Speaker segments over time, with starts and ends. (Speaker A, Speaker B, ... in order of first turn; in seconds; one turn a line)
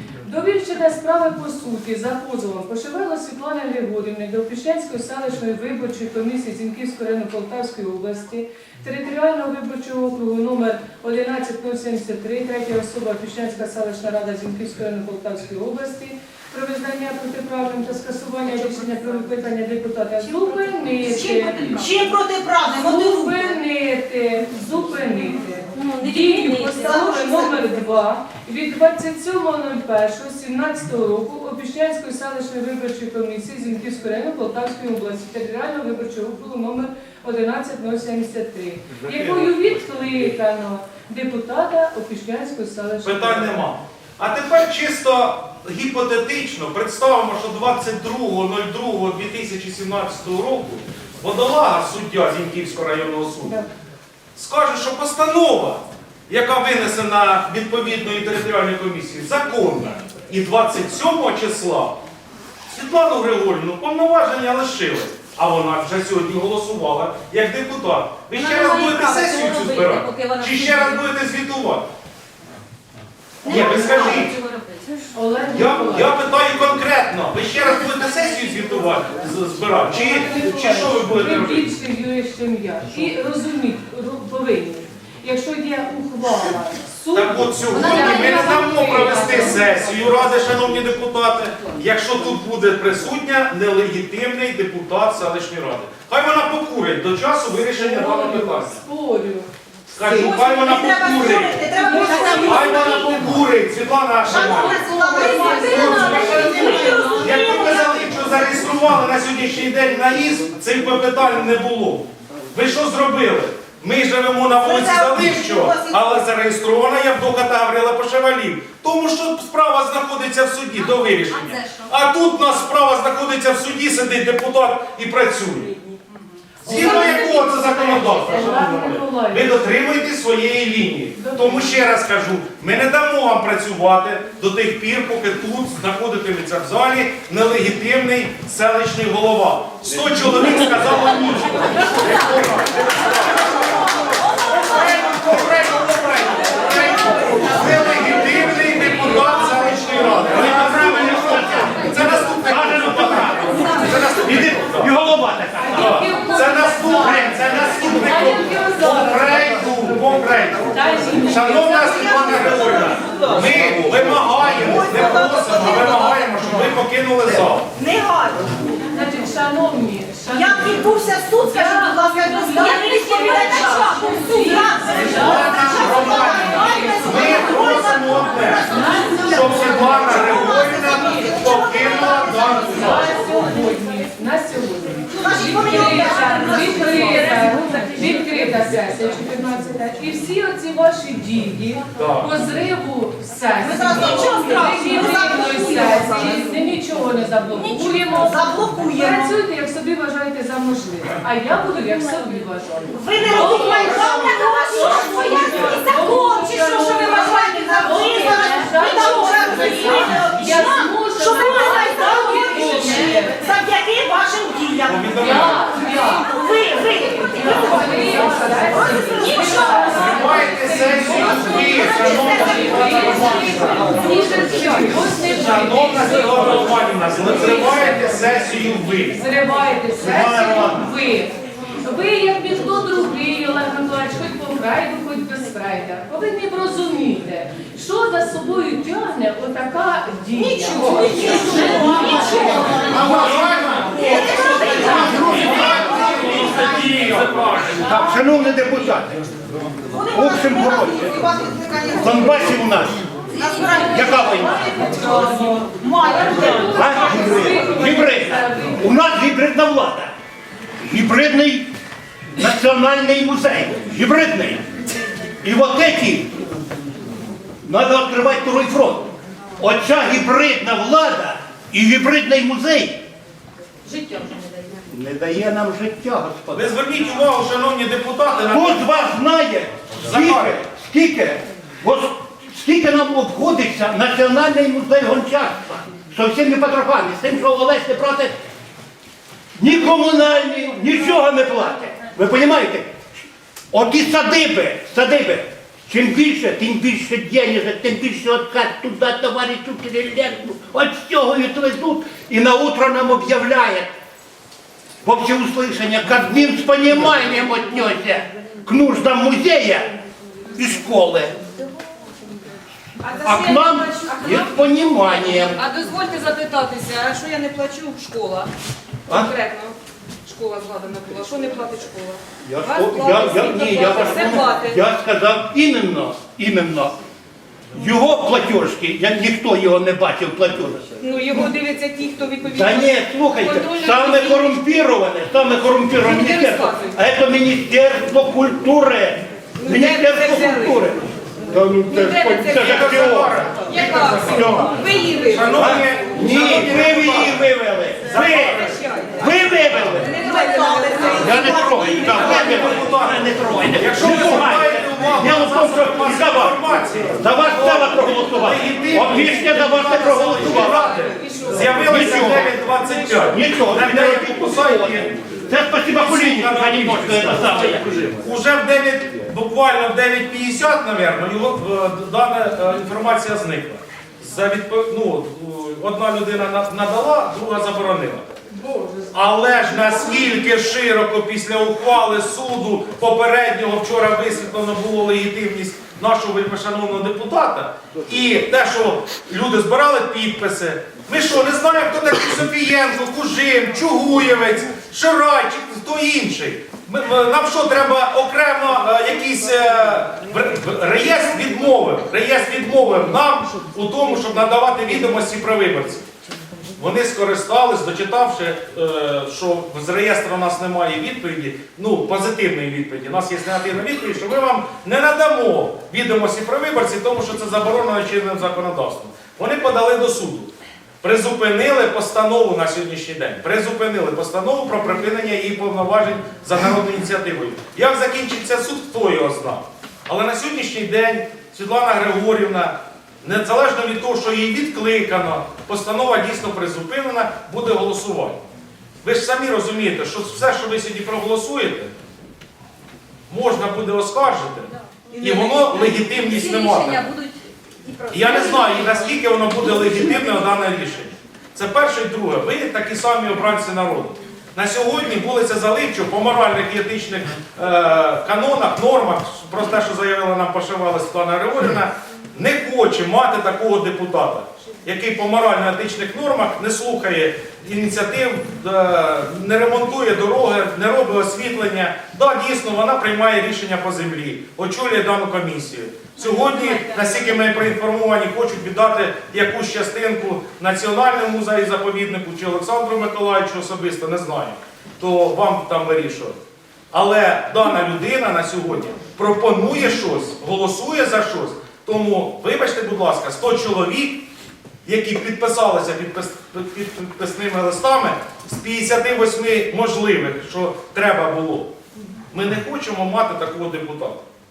Speaker A: 0.2-21.9
Speaker B: 21.2-23.5
Speaker A: 22.6-43.7
Speaker C: 25.8-26.7
Speaker B: 26.8-27.5
Speaker D: 38.9-39.9
Speaker D: 43.0-53.6
Speaker D: 54.4-62.0
Speaker D: 62.7-71.9
Speaker C: 68.3-71.1
Speaker D: 73.5-74.3
Speaker A: 73.5-74.2
Speaker C: 73.5-74.9
Speaker A: 75.1-76.2
Speaker D: 75.5-81.8
Speaker A: 79.9-90.1
Speaker D: 87.1-98.8
Speaker A: 97.7-100.6
Speaker D: 99.9-104.8
Speaker B: 100.1-103.3
Speaker A: 101.8-103.1
Speaker B: 104.3-108.7
Speaker A: 104.3-107.4
Speaker C: 105.2-107.7
Speaker D: 105.6-125.7
Speaker B: 114.6-116.2
Speaker A: 126.6-129.7
Speaker D: 126.6-143.8
Speaker A: 131.2-131.9
Speaker D: 144.5-154.9
Speaker E: 145.4-145.7
Speaker B: 146.8-147.5
Speaker E: 150.3-156.1
Speaker A: 155.6-162.8
Speaker D: 155.7-167.7
Speaker B: 161.4-163.7
Speaker B: 164.5-166.5
Speaker B: 167.8-168.4
Speaker A: 168.9-177.4
Speaker B: 170.3-183.6
Speaker D: 175.0-183.2
Speaker A: 178.7-181.0
Speaker A: 182.7-213.4
Speaker B: 185.1-187.5
Speaker C: 186.2-188.1
Speaker D: 192.0-192.3
Speaker B: 193.6-196.4
Speaker C: 194.3-196.4
Speaker B: 197.6-199.3
Speaker B: 202.9-220.2
Speaker D: 214.9-215.7
Speaker A: 215.2-228.2
Speaker D: 219.9-229.2
Speaker B: 221.4-223.2
Speaker C: 223.9-224.9
Speaker A: 229.1-245.2
Speaker E: 230.0-230.8
Speaker B: 240.4-247.1
Speaker C: 241.1-242.9
Speaker D: 242.8-248.2
Speaker E: 243.0-244.2
Speaker E: 244.7-245.9
Speaker E: 247.8-249.2
Speaker B: 249.9-252.7
Speaker E: 250.1-251.2
Speaker E: 252.0-253.1
Speaker B: 253.4-257.6
Speaker C: 253.6-253.8
Speaker E: 253.9-254.6
Speaker A: 254.2-258.9
Speaker C: 254.6-255.6
Speaker E: 256.6-260.1
Speaker E: 260.8-261.7
Speaker E: 262.4-264.7
Speaker E: 265.4-266.4
Speaker E: 267.6-273.1
Speaker C: 273.8-274.9
Speaker E: 274.9-276.8
Speaker D: 276.5-279.0
Speaker E: 278.5-288.4
Speaker D: 280.0-280.6
Speaker E: 289.6-293.0
Speaker E: 293.7-303.9
Speaker E: 305.0-310.0
Speaker E: 310.6-311.4
Speaker C: 313.0-318.5
Speaker E: 313.2-315.6
Speaker E: 319.1-319.3
Speaker C: 319.1-324.8
Speaker E: 322.4-326.9
Speaker E: 327.8-330.9
Speaker C: 331.0-334.6
Speaker E: 332.6-341.1
Speaker C: 335.9-337.0
Speaker C: 339.6-340.9
Speaker E: 341.6-343.3
Speaker C: 341.8-345.8
Speaker D: 342.4-347.4
Speaker E: 344.3-344.7
Speaker E: 345.5-350.2
Speaker D: 348.1-348.8
Speaker C: 348.1-352.9
Speaker B: 350.1-352.3
Speaker E: 351.2-356.6
Speaker D: 352.1-378.3
Speaker E: 357.2-360.9
Speaker C: 360.2-363.2
Speaker E: 361.7-362.6
Speaker E: 363.3-368.2
Speaker C: 378.6-379.1
Speaker A: 378.7-379.1
Speaker D: 379.1-406.1
Speaker D: 406.8-420.5
Speaker D: 421.0-438.4
Speaker D: 439.0-441.9
Speaker D: 443.3-447.1
Speaker C: 445.1-449.1
Speaker D: 448.1-486.4
Speaker C: 449.7-450.1
Speaker C: 476.2-477.4
Speaker D: 486.9-494.2
Speaker D: 494.9-501.7
Speaker D: 502.3-504.2